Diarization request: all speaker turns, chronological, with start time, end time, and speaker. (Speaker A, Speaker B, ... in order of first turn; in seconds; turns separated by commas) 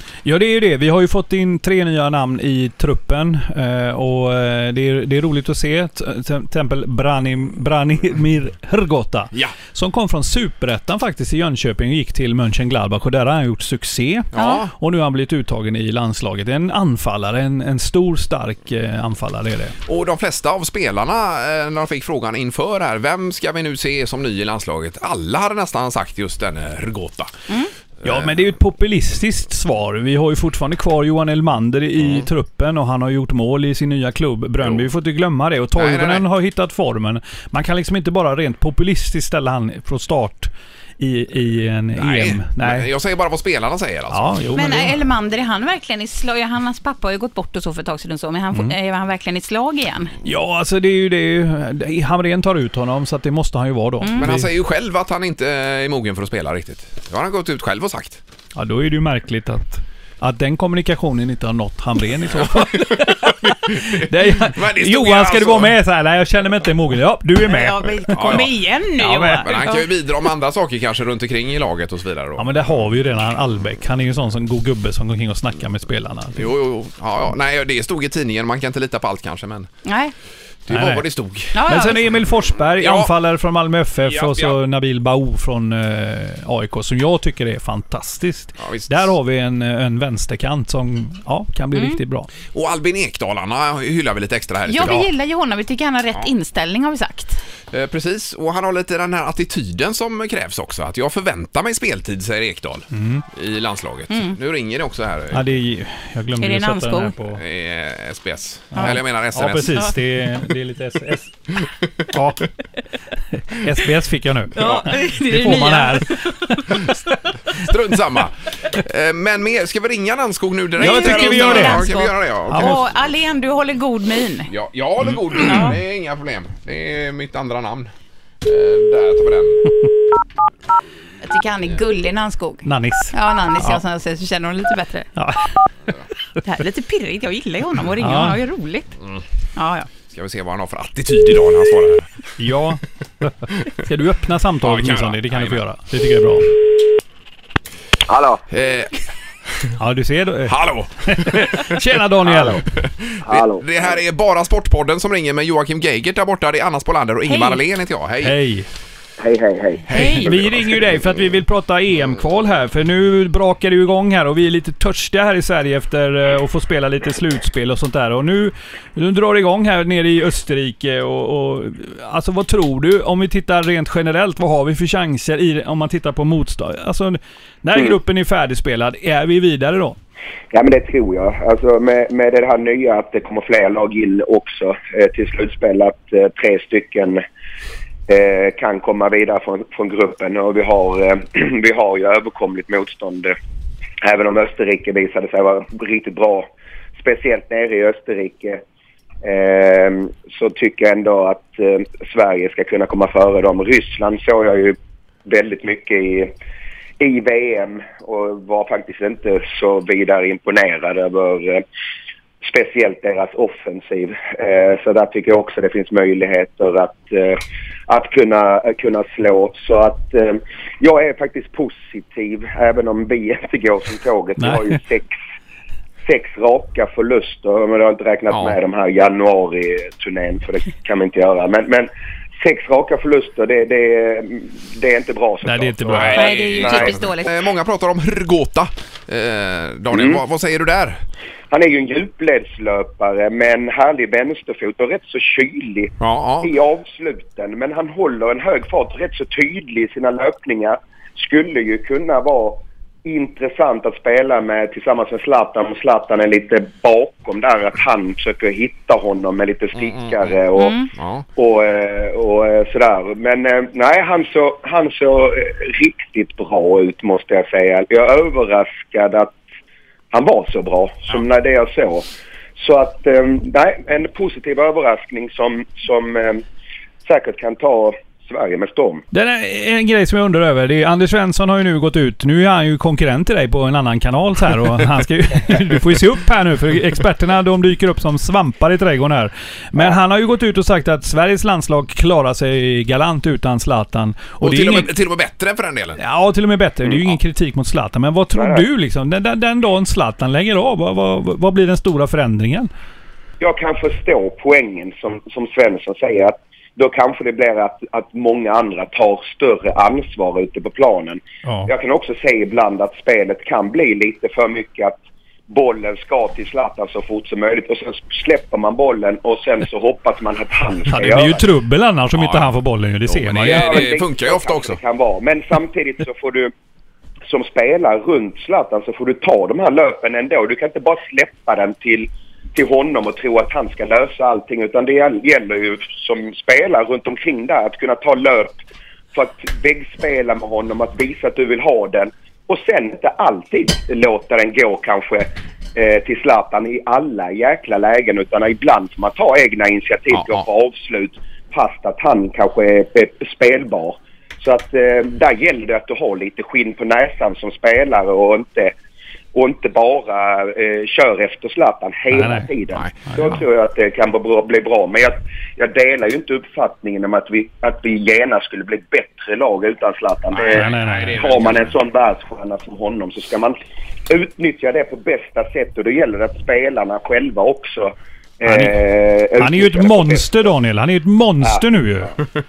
Speaker A: 0.2-19.8, Speaker B: 14.3-14.7, Speaker C: 14.3-14.6, Speaker B: 19.9-27.3, Speaker B: 28.0-28.3, Speaker A: 28.0-42.9, Speaker B: 32.0-32.3, Speaker B: 35.8-36.2, Speaker B: 42.0-44.8, Speaker A: 44.1-44.9, Speaker C: 44.5-50.1, Speaker A: 50.2-54.5, Speaker C: 54.0-54.3, Speaker B: 54.1-58.2, Speaker A: 58.5-68.5, Speaker B: 62.3-65.7, Speaker C: 67.4-69.9, Speaker B: 68.1-68.5, Speaker A: 69.0-69.5, Speaker B: 69.4-72.6, Speaker A: 72.4-76.5, Speaker B: 76.3-79.7, Speaker C: 79.8-80.1, Speaker B: 80.7-81.6, Speaker A: 80.7-92.3, Speaker C: 81.5-82.0, Speaker B: 82.8-83.1, Speaker B: 84.0-84.6, Speaker B: 88.6-89.1, Speaker B: 92.5-95.1, Speaker C: 94.7-97.4, Speaker B: 97.7-105.5, Speaker A: 102.9-103.2, Speaker C: 104.1-104.3, Speaker A: 105.3-107.4, Speaker C: 106.4-107.1, Speaker B: 107.3-109.9, Speaker A: 108.7-111.3, Speaker A: 112.1-112.5, Speaker A: 113.3-117.1, Speaker C: 114.5-116.9, Speaker B: 114.5-114.9, Speaker B: 117.5-122.8, Speaker A: 120.8-121.9, Speaker C: 120.8-124.5, Speaker A: 122.5-122.8, Speaker B: 124.5-127.9, Speaker C: 125.4-125.8, Speaker B: 128.4-129.7, Speaker C: 131.2-135.1, Speaker A: 132.6-133.8, Speaker A: 135.2-135.7, Speaker C: 136.4-138.9, Speaker A: 138.0-138.4, Speaker C: 139.6-139.9, Speaker B: 140.1-142.1, Speaker A: 142.4-146.5, Speaker B: 144.6-145.6, Speaker D: 148.1-148.4, Speaker B: 148.5-149.0, Speaker A: 149.8-152.6, Speaker B: 150.4-158.4, Speaker D: 153.2-153.8, Speaker C: 157.2-157.6, Speaker A: 158.2-158.7, Speaker D: 159.2-159.8, Speaker B: 159.9-161.0, Speaker C: 159.9-160.3, Speaker A: 159.9-180.0, Speaker D: 180.5-187.2, Speaker D: 188.1-193.3, Speaker D: 194.0-198.6, Speaker D: 199.2-206.3, Speaker D: 207.0-211.6, Speaker D: 212.4-225.2, Speaker A: 224.4-224.8, Speaker D: 226.1-237.0, Speaker B: 228.3-228.6, Speaker A: 235.4-236.3, Speaker B: 235.9-241.0, Speaker C: 236.1-237.3, Speaker D: 239.9-240.2, Speaker D: 241.5-260.8, Speaker B: 246.0-246.5, Speaker B: 259.7-260.3, Speaker C: 260.6-260.9, Speaker B: 260.9-261.2, Speaker D: 261.4-269.4, Speaker D: 270.1-272.1, Speaker D: 272.6-276.4, Speaker D: 277.0-279.0, Speaker A: 279.1-294.9, Speaker B: 294.4-296.0, Speaker A: 296.0-302.7, Speaker D: 298.3-298.6, Speaker D: 303.4-315.0, Speaker A: 311.4-311.7, Speaker D: 315.5-321.4, Speaker A: 320.9-323.8, Speaker B: 322.1-322.5, Speaker B: 323.1-324.8, Speaker D: 323.4-326.5, Speaker D: 327.3-338.6, Speaker D: 339.1-358.7, Speaker B: 350.1-350.4, Speaker D: 359.3-380.4, Speaker A: 362.1-362.5, Speaker B: 362.7-363.0, Speaker A: 363.1-363.4, Speaker B: 370.3-371.8, Speaker A: 370.5-371.2, Speaker A: 378.4-378.8, Speaker A: 379.4-382.1